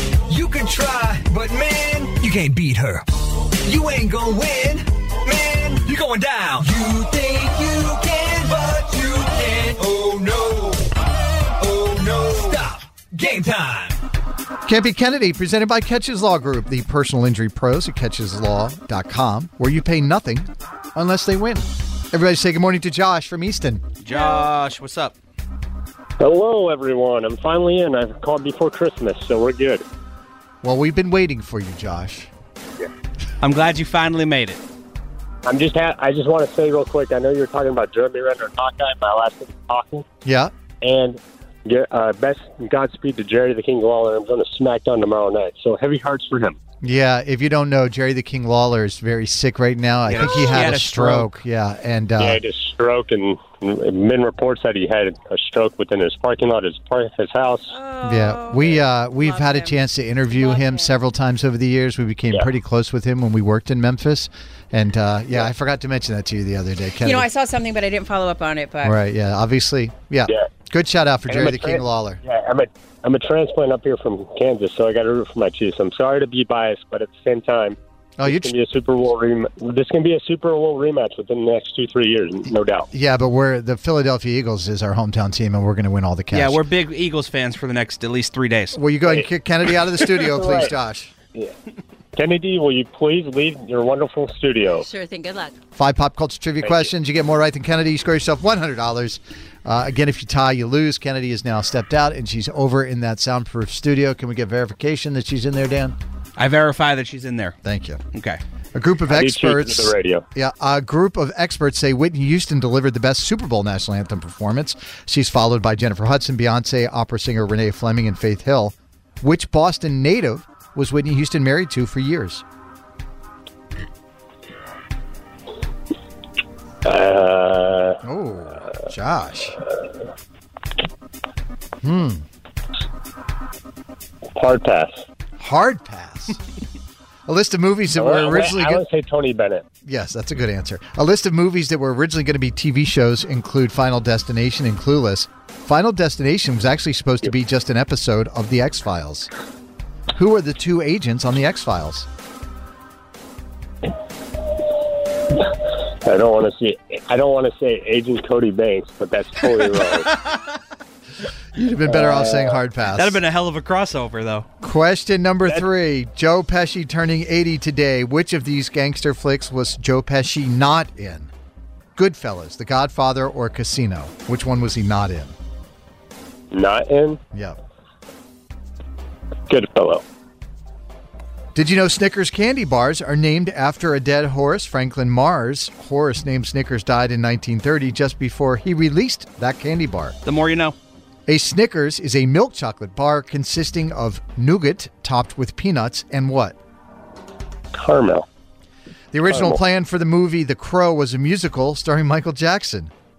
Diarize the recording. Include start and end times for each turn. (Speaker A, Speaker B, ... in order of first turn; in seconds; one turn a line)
Speaker A: 0.3-3.1
Speaker A: 3.6-11.0
Speaker A: 11.6-14.0
Speaker B: 14.7-23.8
Speaker C: 24.0-25.1
Speaker D: 24.1-24.5
Speaker E: 26.2-29.9
Speaker B: 30.6-32.3
Speaker C: 33.4-34.6
Speaker E: 35.5-40.0
Speaker B: 40.2-40.5
Speaker E: 40.8-46.6
Speaker B: 46.8-52.4
Speaker C: 50.1-51.4
Speaker E: 52.2-57.7
Speaker D: 57.7-60.9
Speaker B: 58.0-67.3
Speaker D: 67.0-69.0
Speaker B: 68.8-72.2
Speaker E: 71.3-82.9
Speaker B: 78.2-78.5
Speaker B: 82.9-86.7
Speaker C: 86.3-88.8
Speaker B: 88.7-91.1
Speaker E: 90.2-90.7
Speaker E: 92.2-94.9
Speaker D: 94.7-95.5
Speaker B: 95.8-106.0
Speaker E: 96.6-96.9
Speaker C: 106.4-107.6
Speaker B: 107.6-108.0
Speaker C: 108.1-108.4
Speaker B: 108.7-122.4
Speaker E: 109.1-110.2
Speaker E: 126.8-128.0
Speaker B: 128.0-129.6
Speaker B: 131.8-132.2
Speaker E: 134.4-135.0
Speaker B: 135.4-136.4
Speaker B: 137.3-138.8
Speaker E: 138.0-139.7
Speaker B: 139.8-149.3
Speaker B: 150.1-152.1
Speaker E: 155.3-160.1
Speaker B: 161.6-163.2
Speaker E: 161.9-162.6
Speaker C: 162.9-164.5
Speaker B: 164.6-171.3
Speaker B: 172.0-175.3
Speaker E: 176.5-177.2
Speaker E: 179.5-180.0
Speaker B: 181.6-190.2
Speaker C: 190.2-190.8
Speaker B: 191.3-196.6
Speaker E: 197.8-198.3
Speaker B: 199.1-202.9
Speaker E: 199.3-199.6